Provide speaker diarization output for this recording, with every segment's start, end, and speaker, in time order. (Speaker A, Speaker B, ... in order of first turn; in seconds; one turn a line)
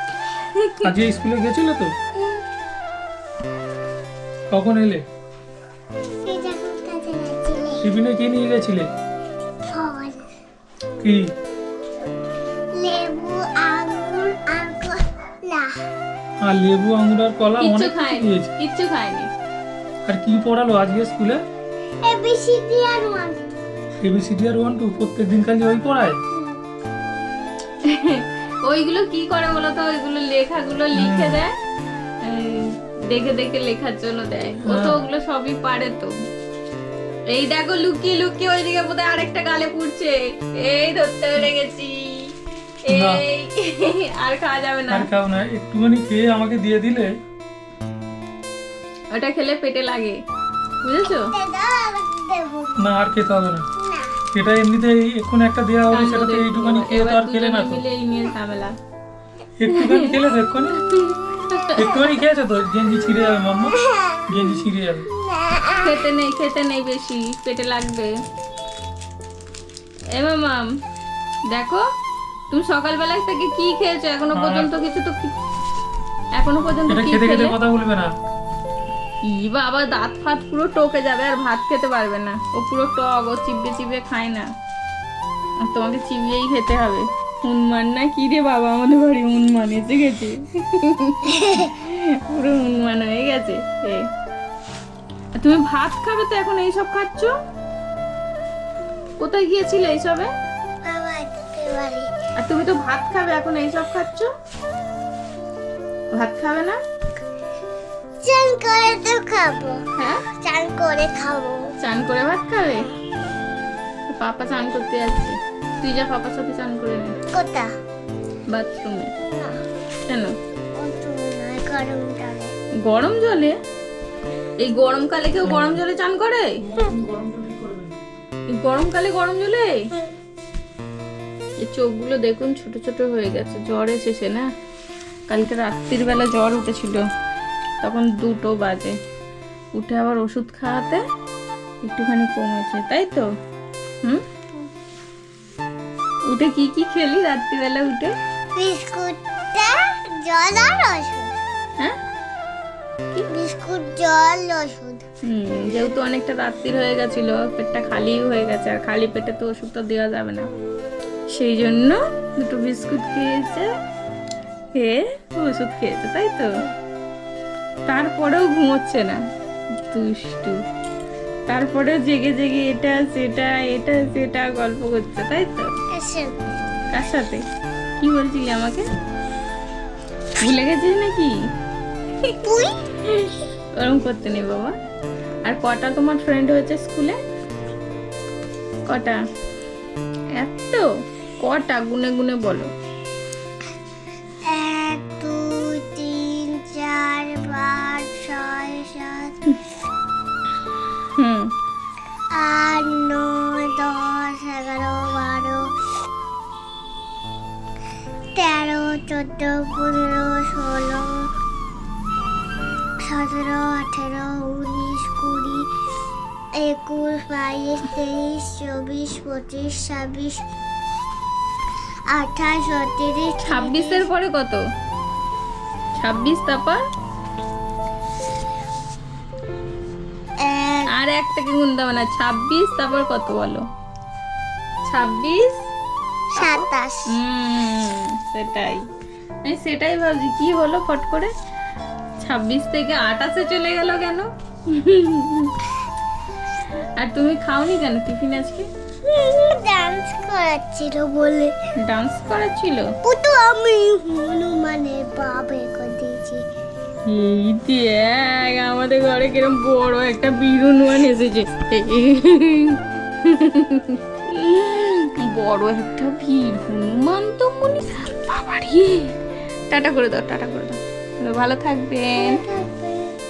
Speaker A: 0.4-0.9
Speaker B: 0.8-1.9
Speaker B: 4.5-5.0
Speaker C: 6.2-7.8
Speaker B: 7.8-8.9
Speaker C: 9.7-10.2
Speaker B: 11.0-11.3
Speaker C: 12.7-15.8
Speaker B: 16.4-18.5
Speaker A: 17.6-19.3
Speaker B: 20.1-21.4
Speaker C: 22.0-23.5
Speaker B: 24.0-26.2
Speaker C: 26.3-26.6
Speaker A: 27.8-31.5
Speaker B: 30.9-31.4
Speaker A: 32.2-36.1
Speaker B: 34.6-35.0
Speaker A: 37.3-42.3
Speaker A: 42.9-45.1
Speaker B: 42.9-43.2
Speaker B: 44.9-47.1
Speaker A: 49.1-50.2
Speaker A: 50.8-51.3
Speaker C: 51.1-52.9
Speaker B: 52.8-53.6
Speaker C: 53.8-54.1
Speaker B: 54.3-57.8
Speaker A: 55.9-58.7
Speaker B: 59.6-60.9
Speaker A: 59.7-60.1
Speaker A: 60.8-62.0
Speaker C: 61.4-61.8
Speaker B: 61.7-65.1
Speaker C: 63.8-64.2
Speaker C: 65.1-66.0
Speaker A: 65.7-68.1
Speaker A: 70.1-70.7
Speaker A: 71.5-71.8
Speaker A: 72.5-75.3
Speaker B: 74.3-74.8
Speaker A: 76.3-77.5
Speaker B: 76.9-78.1
Speaker A: 79.2-84.5
Speaker A: 85.6-94.1
Speaker A: 95.3-97.3
Speaker A: 99.2-100.3
Speaker C: 100.8-102.1
Speaker A: 102.4-104.3
Speaker A: 106.1-106.8
Speaker C: 108.2-109.8
Speaker A: 110.0-110.2
Speaker C: 110.3-111.7
Speaker A: 111.8-112.9
Speaker A: 114.1-117.2
Speaker C: 117.3-117.7
Speaker A: 118.5-119.1
Speaker C: 119.2-119.6
Speaker A: 120.1-120.3
Speaker C: 120.7-122.5
Speaker A: 122.8-123.6
Speaker A: 124.6-126.6
Speaker B: 125.4-125.8
Speaker B: 126.6-128.0
Speaker A: 128.5-129.9
Speaker A: 131.6-134.5
Speaker A: 135.3-137.0
Speaker A: 137.8-138.9
Speaker A: 139.8-141.0
Speaker A: 141.8-143.3
Speaker A: 146.3-148.1
Speaker C: 148.5-151.4
Speaker C: 153.1-155.0
Speaker A: 155.2-160.5
Speaker A: 161.3-163.7
Speaker A: 164.8-166.5
Speaker A: 167.9-169.2
Speaker A: 169.9-170.6
Speaker A: 171.5-175.7
Speaker C: 175.9-176.4
Speaker A: 176.9-177.4
Speaker A: 178.0-178.8
Speaker A: 180.4-181.3
Speaker C: 182.4-182.8
Speaker A: 183.8-184.7
Speaker A: 185.4-187.2
Speaker A: 188.9-189.2
Speaker A: 190.3-190.8
Speaker A: 191.4-192.7
Speaker C: 194.4-199.3
Speaker A: 201.2-201.5
Speaker C: 202.3-205.7
Speaker C: 208.3-211.3
Speaker C: 213.0-215.7
Speaker C: 216.5-220.4
Speaker C: 222.1-224.1
Speaker A: 223.4-224.6
Speaker A: 226.0-226.8
Speaker C: 230.4-230.9
Speaker A: 230.9-233.6
Speaker A: 234.9-235.5
Speaker C: 236.3-237.1
Speaker A: 236.3-238.8
Speaker A: 239.4-241.3
Speaker A: 242.2-245.5
Speaker A: 247.0-248.7
Speaker C: 249.0-251.5
Speaker A: 251.8-252.9
Speaker C: 253.0-256.4
Speaker A: 257.1-269.1
Speaker A: 269.7-272.4
Speaker C: 272.1-273.1